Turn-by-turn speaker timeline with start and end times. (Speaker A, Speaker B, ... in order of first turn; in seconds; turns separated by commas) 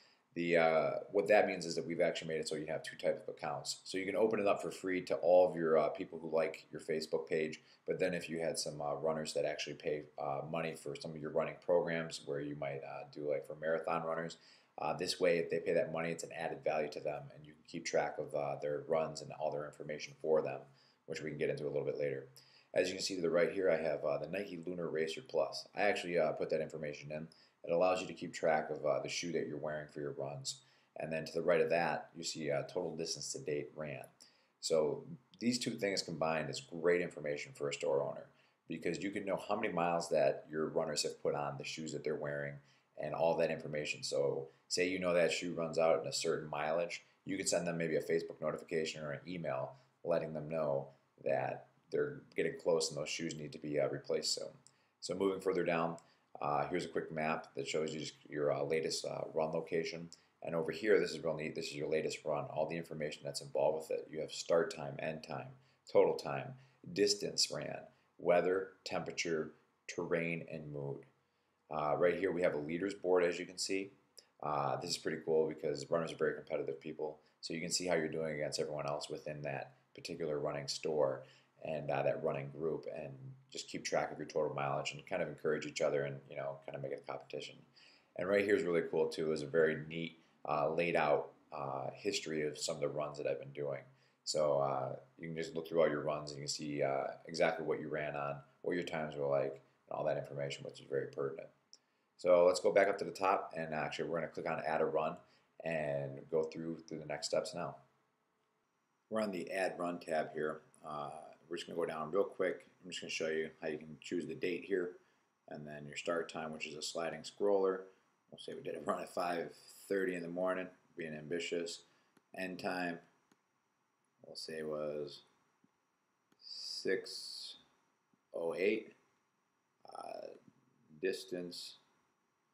Speaker A: 0.3-71.1, Speaker A: 71.7-101.5, Speaker A: 102.2-107.8, Speaker A: 109.1-123.0, Speaker A: 124.2-125.2, Speaker A: 126.4-127.6, Speaker A: 128.3-128.9, Speaker A: 129.8-130.4, Speaker A: 130.9-131.8